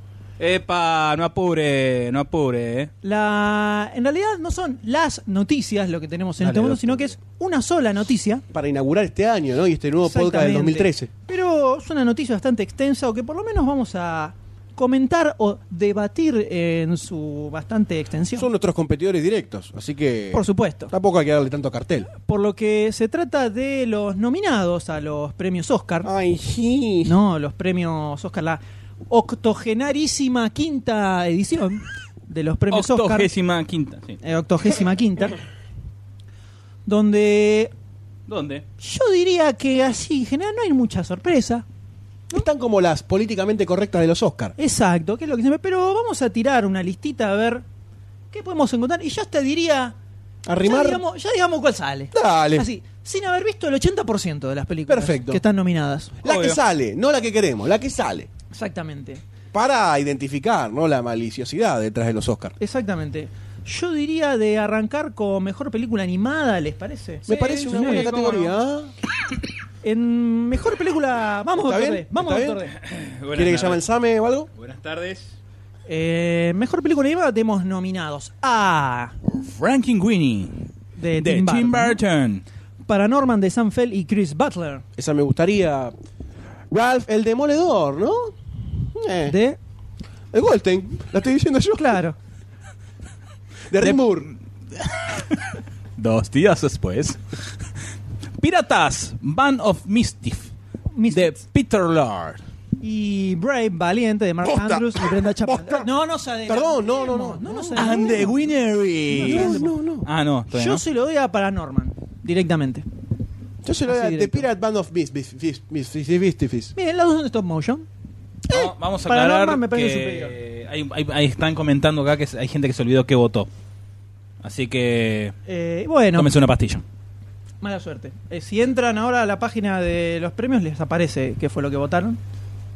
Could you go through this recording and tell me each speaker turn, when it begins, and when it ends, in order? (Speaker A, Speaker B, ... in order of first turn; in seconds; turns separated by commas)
Speaker A: 0.4-2.9, Speaker B: 3.0-8.4, Speaker C: 6.4-7.1, Speaker C: 8.5-11.1, Speaker B: 10.0-18.5, Speaker C: 18.3-22.1, Speaker B: 20.3-20.9, Speaker B: 22.2-26.1, Speaker C: 26.0-27.1, Speaker B: 27.0-33.3, Speaker A: 32.7-34.2, Speaker B: 34.2-35.4, Speaker B: 36.9-37.7, Speaker A: 38.3-38.6, Speaker B: 38.8-41.6, Speaker C: 42.3-44.5, Speaker B: 44.6-47.6, Speaker B: 48.3-49.9, Speaker C: 50.5-51.0, Speaker B: 50.6-56.1, Speaker C: 52.1-52.7, Speaker C: 54.9-55.4, Speaker C: 56.2-58.3, Speaker A: 56.2-56.6, Speaker B: 58.5-59.2, Speaker C: 59.5-62.5, Speaker B: 62.6-68.3, Speaker C: 67.2-68.9, Speaker A: 67.3-68.5, Speaker B: 69.8-72.7, Speaker C: 71.6-72.6, Speaker A: 72.7-73.8, Speaker C: 73.3-74.5, Speaker A: 74.5-75.3, Speaker B: 75.9-79.1, Speaker A: 79.3-80.6, Speaker B: 81.0-82.0, Speaker A: 81.2-82.4, Speaker B: 82.9-84.8, Speaker C: 85.0-85.9, Speaker C: 86.7-89.3, Speaker B: 89.2-89.6, Speaker C: 90.3-92.0, Speaker B: 91.8-92.2, Speaker C: 93.7-94.3, Speaker A: 94.8-95.5, Speaker A: 96.0-97.2, Speaker A: 98.4-100.5, Speaker B: 100.9-101.4, Speaker A: 101.1-102.4, Speaker B: 102.8-108.3, Speaker C: 104.4-105.9, Speaker C: 106.5-108.4, Speaker A: 107.8-110.8, Speaker C: 109.0-110.1, Speaker B: 109.1-109.7, Speaker B: 110.5-112.8, Speaker C: 113.6-116.7, Speaker B: 113.8-114.5, Speaker B: 116.8-117.8, Speaker A: 118.5-123.5, Speaker B: 118.5-120.3, Speaker A: 124.4-125.3, Speaker B: 125.5-126.3, Speaker A: 126.1-126.8, Speaker B: 127.6-132.2